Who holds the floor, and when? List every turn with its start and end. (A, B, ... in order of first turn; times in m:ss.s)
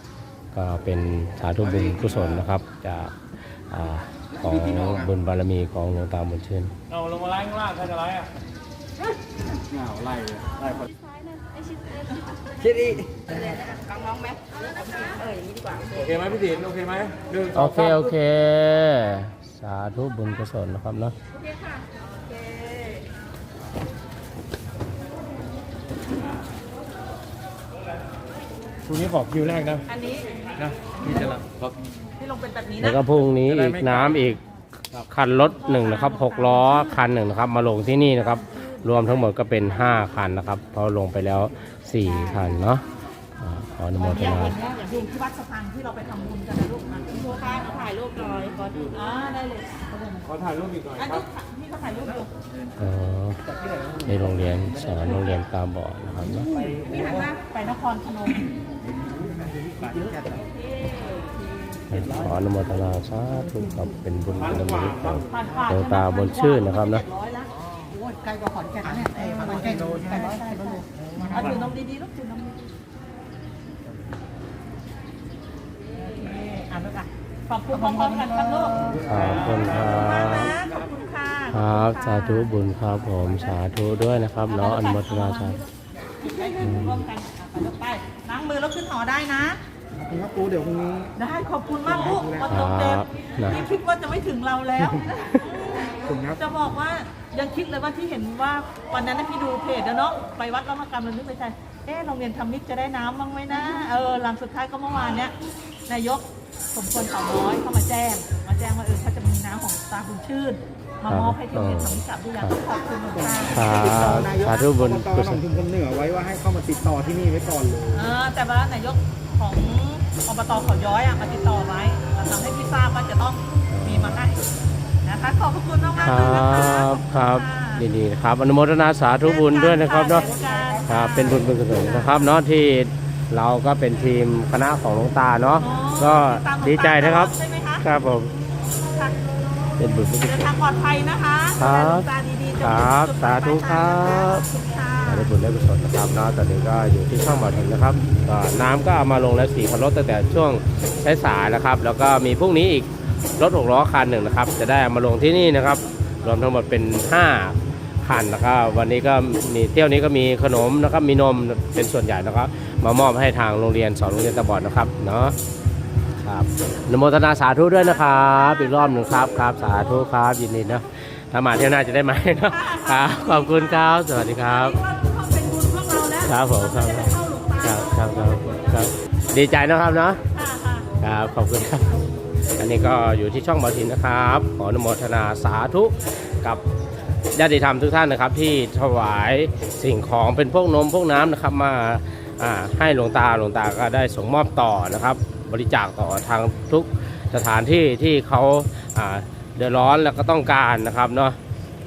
0:00.5-0:06.7 A
0:06.9-0:08.3 B
0:09.7-0:10.8 B
0:11.3-0:12.6 C
0:12.6-0:13.3 B
0:13.3-0:16.4 C
0:16.0-0:17.5 B
0:17.5-0:21.2 A
0:21.4-0:23.0 C
0:28.9-0:29.8 B
0:29.9-0:30.4 C
0:31.1-0:31.5 B
0:32.2-0:33.0 C
0:32.8-0:34.4 A
0:34.9-0:42.8 A
0:35.6-0:37.0 C
0:38.5-0:38.8 C
0:43.4-0:44.6 A
0:44.0-0:50.4 C
0:50.4-0:51.0 B
0:51.0-0:52.3 C
0:52.8-0:56.7 A
0:56.8-0:58.5 C
0:59.2-1:00.4 D
1:00.8-1:01.2 C
1:01.9-1:07.0 A
1:05.3-1:12.7 C
1:08.8-1:11.6 D
1:16.0-1:22.5 C
1:19.0-1:20.6 A
1:21.5-1:25.6 A
1:24.5-1:29.6 C
1:26.6-1:27.0 A
1:30.0-1:31.1 D
1:31.2-1:45.4 C
1:31.9-1:32.6 D
1:32.5-1:33.6 A
1:36.0-1:36.4 D
1:45.9-1:54.2 C
1:51.1-1:52.6 A
1:53.2-1:58.1 D
1:53.5-1:55.4 A
1:57.9-2:04.5 C
2:03.7-2:04.2 A
2:05.0-2:07.8 C
2:06.0-2:10.3 A
2:09.2-2:12.3 C
2:10.4-2:10.9 D
2:10.9-2:18.3 A
2:15.6-2:17.9 C
2:18.8-2:19.2 C
2:19.8-2:20.4 A
2:20.2-2:25.3 C
2:21.6-2:24.5 A
2:25.1-2:45.4 A
2:46.2-2:54.8 A
2:47.8-2:50.0 C
2:52.4-2:58.9 C
2:56.2-3:00.2 A
3:00.3-3:00.9 C
3:01.0-3:02.0 A
3:02.6-3:06.6 A
3:07.4-3:21.4 A